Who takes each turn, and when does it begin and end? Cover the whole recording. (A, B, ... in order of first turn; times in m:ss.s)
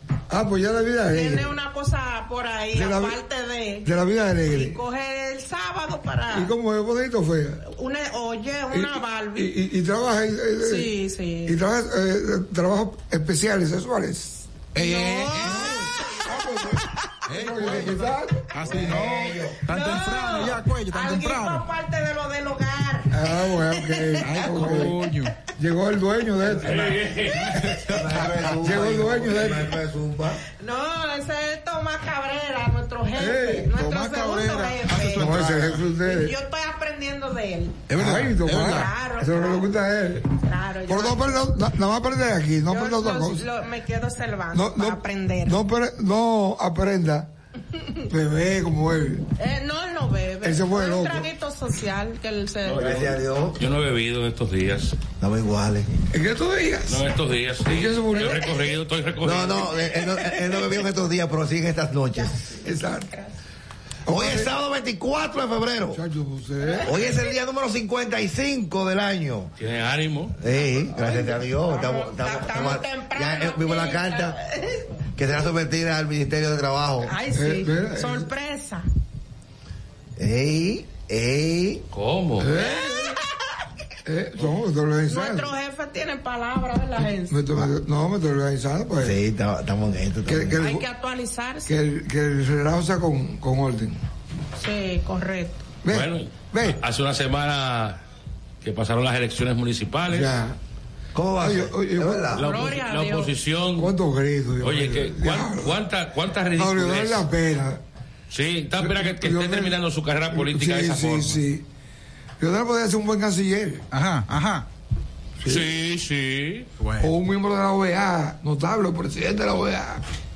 0:00.3-0:01.5 A
0:01.1-0:03.9 B
0:02.7-0:03.2 A
0:03.8-0:04.8 A
0:04.5-0:06.5 B
0:06.3-0:07.6 A
0:07.6-0:09.5 B
0:08.7-0:10.9 A
0:10.6-0:11.6 B
0:11.4-0:14.5 A
0:14.7-0:15.9 C
0:14.8-0:15.8 B
0:15.4-0:18.5 A
0:17.3-0:21.7 C
0:18.6-0:19.6 D
0:19.7-0:25.3 B
0:23.1-0:25.0 A
0:24.2-0:25.3 C
0:25.6-0:27.0 A
0:26.6-0:27.7 E
0:27.4-0:28.4 C
0:27.8-0:30.4 D
0:28.6-0:29.8 A
0:30.5-0:37.8 B
0:33.1-0:33.7 A
0:33.7-0:35.8 C
0:35.1-0:36.4 A
0:37.9-0:38.9 C
0:37.9-0:40.3 A
0:38.5-0:39.8 B
0:40.3-0:41.5 B
0:40.9-0:43.5 A
0:42.7-0:45.6 B
0:44.5-0:47.3 A
0:48.1-0:49.3 A
0:49.4-0:52.9 B
0:50.4-0:51.3 A
0:52.6-0:55.0 E
0:52.7-0:53.6 D
0:55.2-0:55.9 D
0:56.1-0:57.0 A
0:56.9-0:59.7 E
0:57.6-0:58.5 A
0:59.2-1:02.5 D
1:02.6-1:03.1 A
1:04.0-1:04.6 A
1:04.1-1:06.0 D
1:05.9-1:07.1 A
1:06.8-1:09.5 D
1:09.6-1:10.4 E
1:10.4-1:14.4 D
1:10.9-1:14.8 B
1:15.1-1:17.2 D
1:17.0-1:18.9 B
1:17.3-1:18.3 A
1:20.2-1:21.8 D
1:21.9-1:22.6 E
1:22.4-1:23.2 A
1:24.0-1:25.5 A
1:25.1-1:27.4 B
1:27.3-1:29.2 A
1:29.0-1:30.6 D
1:30.2-1:30.8 A
1:30.6-1:31.7 B
1:31.7-1:34.0 A
1:34.6-1:35.7 B
1:35.8-1:36.8 A
1:35.9-1:38.0 E
1:38.6-1:40.4 E
1:40.1-1:40.6 A
1:41.1-1:42.7 D
1:41.4-1:42.3 A
1:42.4-1:43.9 E
1:42.4-1:43.3 B
1:43.8-1:45.8 A
1:44.6-1:47.2 E
1:46.6-1:47.8 A
1:48.3-1:51.4 E
1:48.8-1:49.8 A
1:50.3-1:51.6 A
1:52.4-1:53.8 A
1:53.9-1:54.6 C
1:55.4-1:55.7 A
1:55.5-1:56.7 E
1:56.8-1:57.1 C
1:57.0-2:00.0 A